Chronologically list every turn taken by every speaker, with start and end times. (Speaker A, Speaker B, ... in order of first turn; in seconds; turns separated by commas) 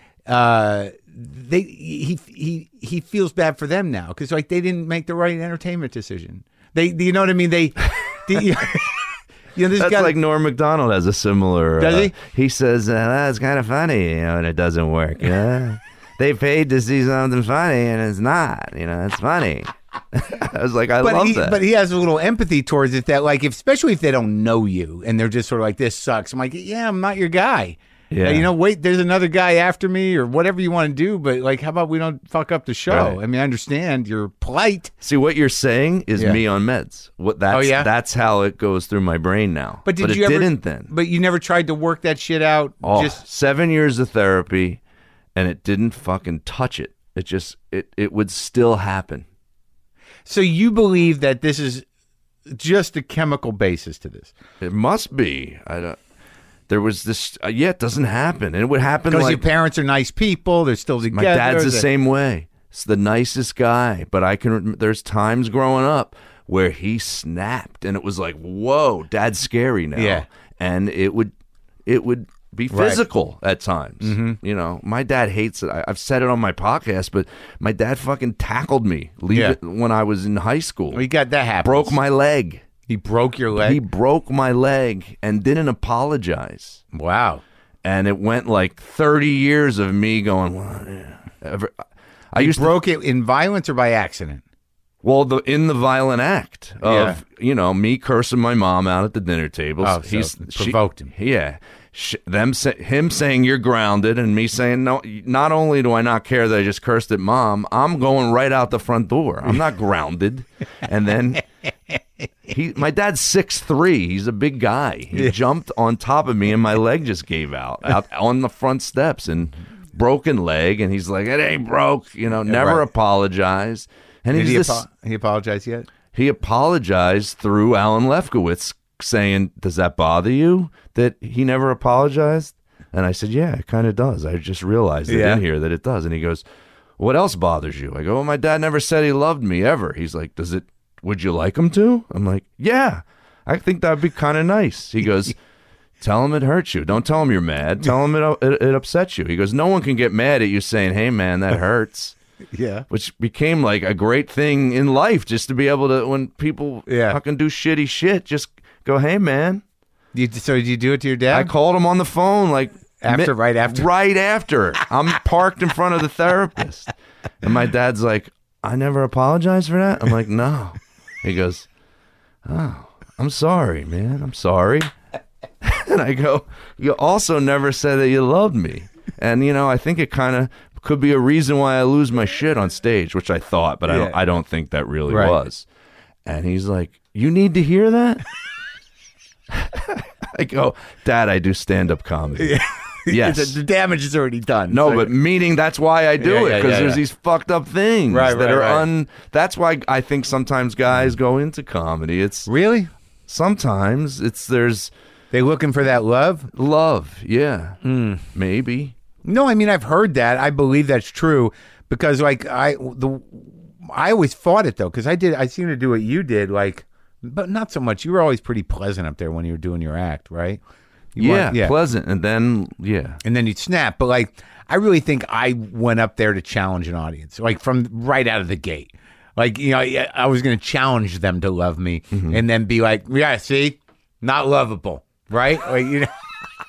Speaker A: 0.3-10.2, Speaker B: 9.8-21.6, Speaker A: 11.8-12.1, Speaker A: 21.0-34.9, Speaker B: 28.1-28.5, Speaker B: 32.9-33.2, Speaker B: 35.0-40.9, Speaker A: 37.5-37.9, Speaker A: 39.9-43.2, Speaker B: 42.8-44.8, Speaker B: 45.4-49.2, Speaker A: 50.3-51.9, Speaker A: 52.5-54.3, Speaker B: 54.6-56.0, Speaker B: 56.7-59.4, Speaker A: 59.1-61.9, Speaker B: 61.1-71.3, Speaker A: 70.0-70.2, Speaker B: 71.9-81.0, Speaker A: 72.7-73.0, Speaker A: 74.0-74.4, Speaker A: 79.3-79.6, Speaker A: 80.9-82.0, Speaker B: 81.6-82.6, Speaker A: 82.9-83.8, Speaker B: 83.6-86.8, Speaker A: 86.9-87.4, Speaker B: 87.8-91.8, Speaker B: 92.3-92.8, Speaker A: 92.4-94.4, Speaker B: 95.0-111.5, Speaker A: 96.8-97.2, Speaker A: 99.8-101.1, Speaker B: 112.5-124.8, Speaker A: 122.5-122.9, Speaker A: 124.3-125.9, Speaker B: 126.1-136.4, Speaker A: 135.1-135.4, Speaker B: 137.0-145.4, Speaker B: 146.0-152.2, Speaker A: 152.5-152.9, Speaker B: 152.9-159.6, Speaker A: 156.9-157.2, Speaker A: 160.1-161.5, Speaker B: 161.3-171.7, Speaker A: 163.0-163.9, Speaker B: 172.4-174.9, Speaker B: 175.6-185.7, Speaker A: 183.9-184.2, Speaker A: 185.1-185.4, Speaker B: 186.3-188.2, Speaker B: 189.5-192.6, Speaker A: 192.4-195.1, Speaker B: 193.1-193.6, Speaker B: 194.7-202.5, Speaker A: 196.2-197.0, Speaker A: 198.1-198.9, Speaker A: 202.5-202.9, Speaker B: 203.3-204.9, Speaker A: 205.3-206.5, Speaker B: 206.5-207.8, Speaker A: 207.8-208.2, Speaker B: 208.3-208.9, Speaker A: 209.2-220.6, Speaker A: 221.2-221.7, Speaker B: 221.2-223.2, Speaker A: 223.2-236.1, Speaker B: 232.1-232.4